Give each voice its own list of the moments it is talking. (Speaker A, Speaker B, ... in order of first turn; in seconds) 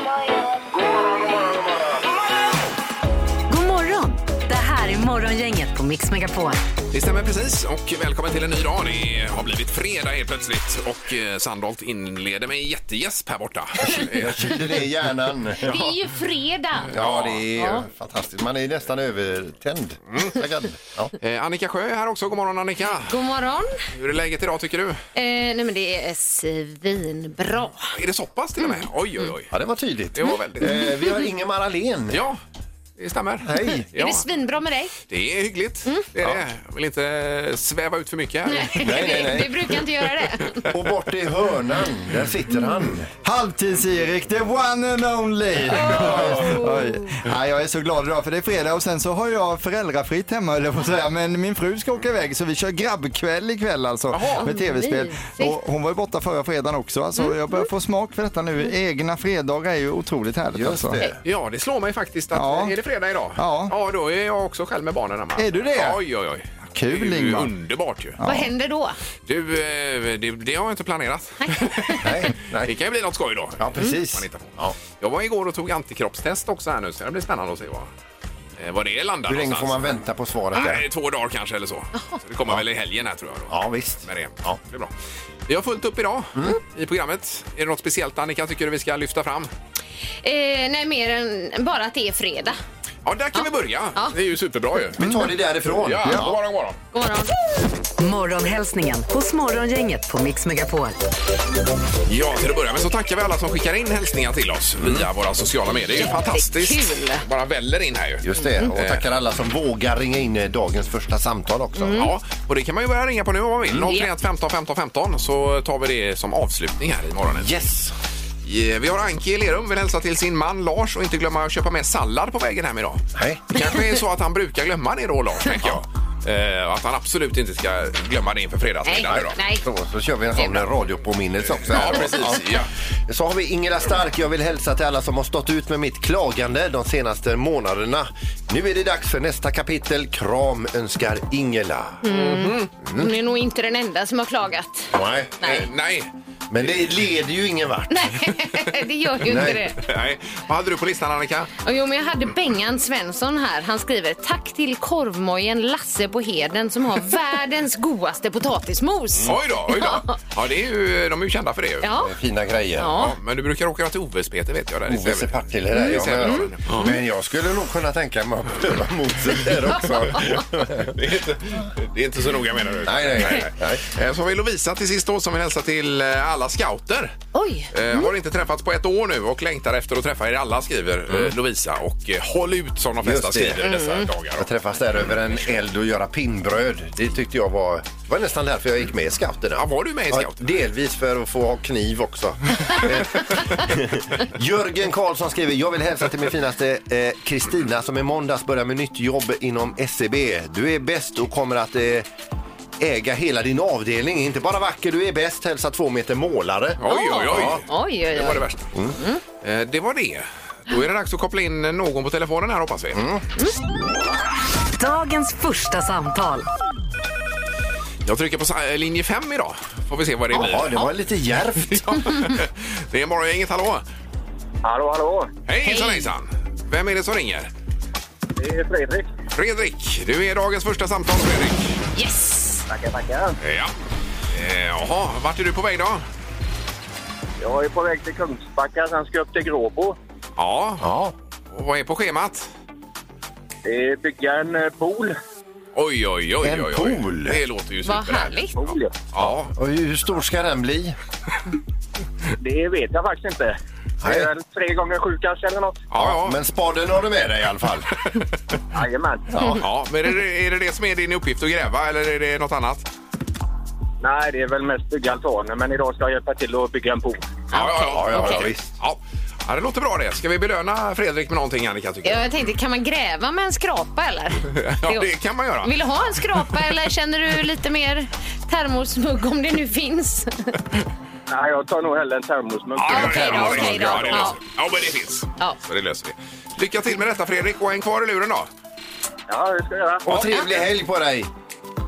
Speaker A: 1.0-1.6, 13.8-15.9, 16.9-21.1, 29.5-32.2, 33.4-33.9, 38.8-39.7, 40.7-43.1, 45.8-46.5, 60.5-61.2, 72.0-72.7, 73.6-74.8, 79.3-80.8, 83.5-84.6, 94.9-96.4, 104.8-105.0, 108.2-112.1, 117.3-117.9, 123.2-123.4, 129.1-142.0, 144.9-145.7, 146.5-148.1, 149.2-149.6, 162.0-162.9, 164.9-170.9, 172.8-173.8, 183.0-183.8, 184.4-202.1, 202.8-207.6, 212.9-213.2, 220.3-222.1, 240.8-241.1, 246.4-247.4, 249.2-250.9, 254.0-254.3, 255.9-257.9, 259.3-259.6, 267.9-268.7, 282.9-284.2, 290.0-291.3
Speaker B: 3.5-6.6, 98.0-101.0, 214.7-216.4
Speaker C: 6.9-14.5, 16.9-17.4, 21.2-23.2, 23.9-25.0, 27.9-29.5, 30.1-30.8, 32.1-32.4, 33.0-34.2, 35.1-39.1, 54.1-54.5, 61.2-68.2, 69.2-77.9, 78.6-79.9, 80.5-84.9, 85.5-89.5, 93.0-95.0, 95.7-96.8, 102.1-109.0, 111.9-117.5, 118.4-129.3, 131.5-132.7, 142.1-142.7, 145.5-146.1, 149.4-151.5, 159.2-161.9, 162.9-167.0, 170.9-177.1, 177.7-184.5, 189.5-190.6, 206.8-208.7, 209.4-213.0, 218.0-220.8, 221.7-223.8, 225.5-227.5, 229.3-231.8, 233.4-233.7, 234.3-236.0, 240.4-240.9, 241.5-242.5, 245.7-248.4, 249.1-249.5, 255.9-256.4, 259.5-262.9, 267.5-272.3, 274.5-275.8, 276.3-276.6, 282.8-288.5
Speaker D: 15.6-16.9, 17.6-17.8, 23.0-23.8, 25.1-27.9, 30.6-31.1, 33.9-35.0, 38.5-40.7, 46.1-47.0, 54.4-55.5, 57.2-57.6, 68.2-69.0, 71.4-72.0, 90.2-92.6, 93.3-94.1, 96.9-97.3, 106.0-107.2, 108.4-108.6, 111.8-112.1, 113.8-114.1, 128.8-129.6, 130.4-130.6, 142.0-145.6, 147.9-149.8, 151.6-160.1, 161.8-162.1, 162.8-163.2, 165.7-166.5, 177.3-178.1, 183.6-184.1, 206.8-209.2, 220.3-220.9, 225.6-226.1, 231.9-232.7, 247.8-248.7, 267.5-268.5, 272.0-275.1, 275.6-280.6, 282.8-284.4
Speaker E: 43.2-61.0, 62.3-62.7, 63.4-63.7, 65.3-66.0, 66.7-67.5, 68.2-68.5, 95.0-95.3, 96.0-96.2
Speaker F: 224.6-225.3, 228.4-229.1, 232.7-233.4, 237.4-240.0, 243.6-245.1, 248.6-249.1, 252.4-255.8, 258.7-259.3, 264.0-267.2, 281.3-283.4, 289.3-290.1